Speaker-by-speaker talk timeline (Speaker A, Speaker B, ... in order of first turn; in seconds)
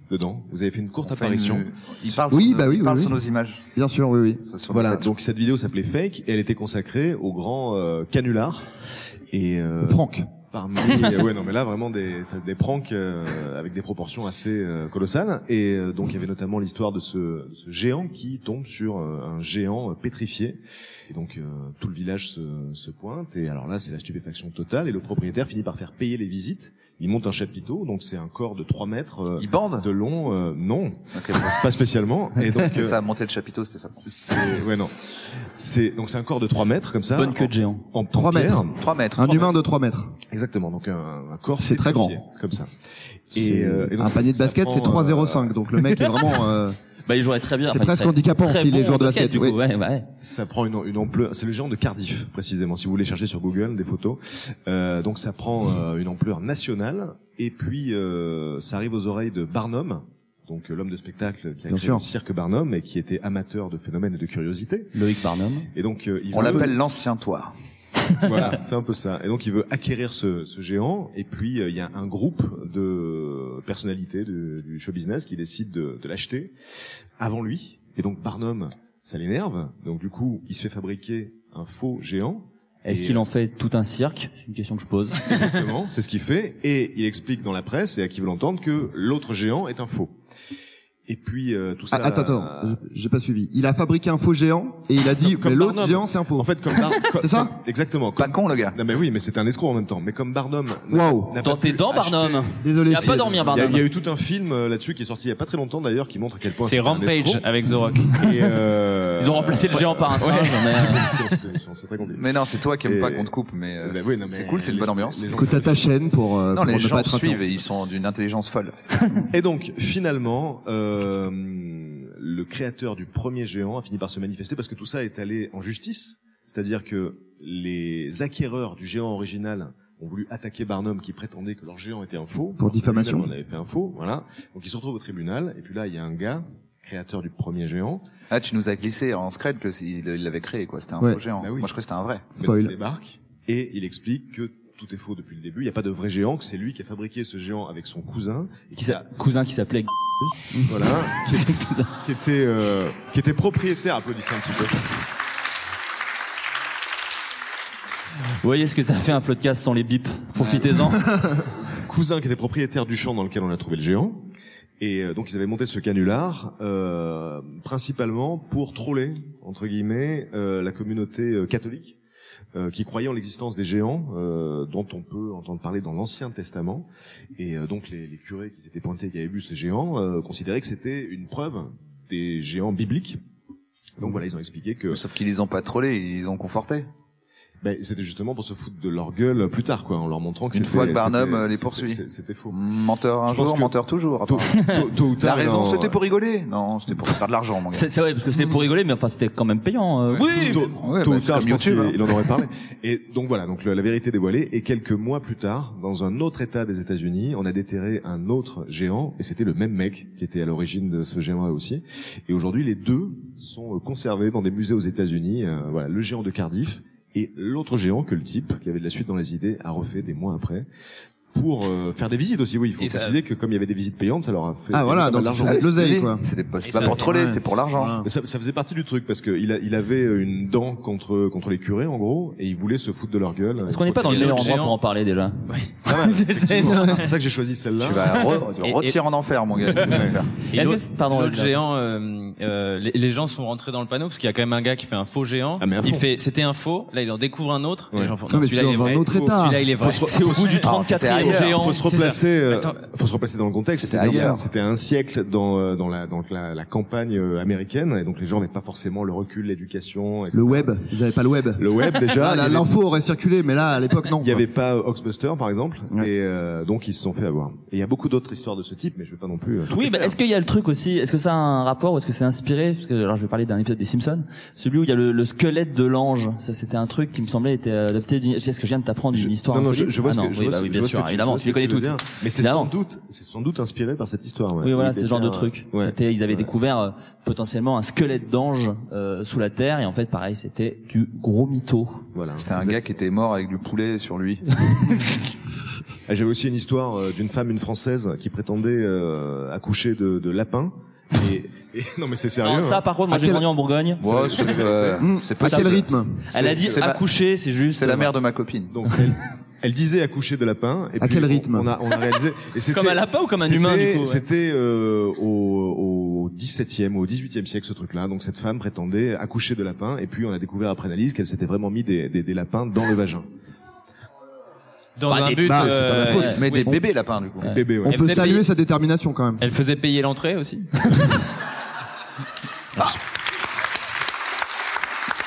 Speaker A: 0.1-1.7, 4.7-8.7, 9.3-33.0, 34.1-38.8, 40.3-45.6, 50.2-64.9, 65.8-66.8, 68.2-76.5, 77.2-83.3, 85.3-90.2, 91.1-92.8, 95.2-107.5, 108.1-115.9, 119.3-138.0, 141.4-141.7, 142.4-149.1, 150.6-154.8, 161.7-164.3, 164.8-172.0, 172.5-183.2, 184.0-185.0, 187.6-192.6, 193.3-193.7, 194.3-196.0, 200.2-220.7, 221.3-225.7, 228.0-234.6, 235.9-238.2, 239.8-240.2, 245.6-246.1, 247.9-248.2, 248.9-250.6, 251.5-260.8, 261.6-262.7, 264.2-270.1, 279.1-286.5, 292.1-292.8, 296.1-302.8, 304.0-305.1, 306.4-306.8, 308.7-323.3, 327.5-328.2
Speaker B: 1.0-3.6, 4.5-5.1, 29.4-29.9, 31.1-31.8, 32.5-34.0, 38.8-39.5, 66.3-67.5, 98.2-98.8, 112.1-115.3, 116.5-118.8, 138.3-142.3, 184.9-186.9, 190.5-197.9, 200.8-202.0, 225.4-228.0, 237.8-240.3, 250.6-251.7, 253.8-254.4, 292.4-295.0, 304.0-307.1, 307.7-308.8, 326.3-327.6
Speaker C: 2.3-3.2, 3.7-4.4, 9.8-10.3, 38.1-40.1, 41.6-42.2, 43.4-46.8, 47.7-49.6, 61.7-62.0, 91.9-96.5, 97.1-97.5, 100.9-101.3, 102.6-103.7, 115.3-117.6, 132.6-133.3, 141.0-141.2, 142.4-142.8, 224.7-226.3, 226.9-228.1, 248.3-249.7, 254.0-254.4, 260.3-264.4, 303.1-303.4, 305.0-306.2, 311.0-311.7, 325.4-326.9, 327.8-329.4
Speaker D: 37.1-37.9, 47.1-50.1, 64.9-65.7, 82.8-85.4, 101.4-103.8, 109.2-111.1, 148.8-149.9, 151.1-151.9, 158.4-161.0, 197.7-200.7, 233.7-237.0, 240.5-241.6, 249.8-251.8, 269.7-282.7, 284.6-292.1, 302.4-304.0, 305.4-308.1, 312.7-314.2, 325.1-326.4
Speaker E: 106.6-108.4, 110.2-110.9, 222.8-223.2, 226.6-227.1, 234.1-234.8, 235.5-236.9, 238.2-239.0, 240.5-252.8, 325.0-326.8, 327.9-328.4, 329.4-331.2